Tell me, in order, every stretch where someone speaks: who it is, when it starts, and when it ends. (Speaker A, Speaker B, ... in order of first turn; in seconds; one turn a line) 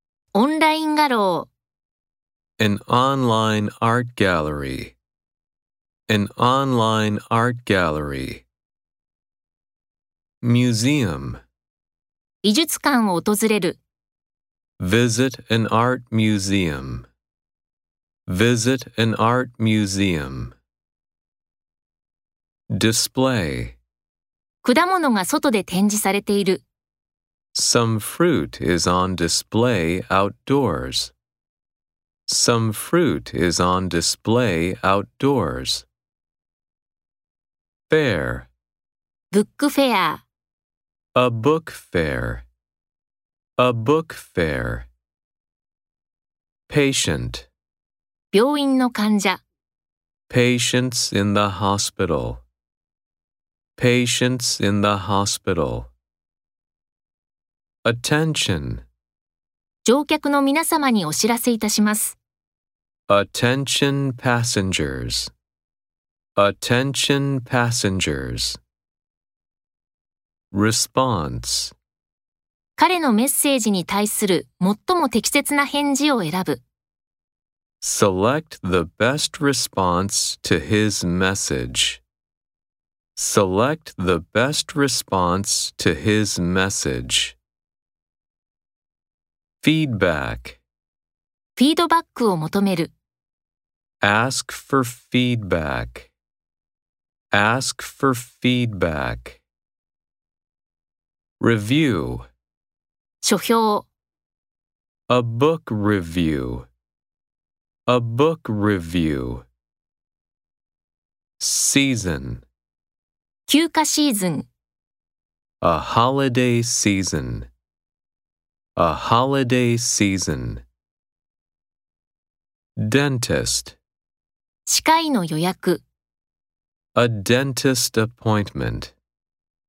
Speaker A: 0.3-1.5
Speaker B: 2.6-5.0
Speaker B: 6.1-8.4
Speaker B: 10.4-11.4
Speaker A: 12.4-13.8
Speaker B: 14.8-17.1
Speaker B: 18.3-20.6
Speaker B: 22.7-23.8
Speaker A: 24.6-26.6
Speaker B: 27.5-31.1
Speaker B: 32.3-35.9
Speaker B: 37.9-38.5
Speaker A: 39.3-40.2
Speaker B: 41.1-42.5
Speaker B: 43.6-44.9
Speaker B: 46.7-47.5
Speaker A: 48.3-49.4
Speaker B: 50.3-52.4
Speaker B: 53.8-55.9
Speaker B: 57.8-58.8
Speaker A: 59.8-62.2
Speaker B: 63.1-65.3
Speaker B: 66.3-68.6
Speaker B: 70.5-71.7
Speaker A: 72.8-76.6
Speaker B: 77.8-82.0
Speaker B: 83.2-87.4
Speaker B: 89.6-90.6
Speaker A: 91.6-92.9
Speaker B: 94.0-96.1
Speaker B: 97.3-99.4
Speaker B: 101.4-102.3
Speaker A: 103.2-103.9
Speaker B: 105.1-106.7
Speaker B: 107.9-109.5
Speaker B: 111.4-112.4
Speaker A: 113.5-114.5
Speaker B: 115.6-117.5
Speaker B: 118.8-120.6
Speaker B: 122.8-123.8
Speaker A: 124.7-125.8
Speaker B: 126.9-128.9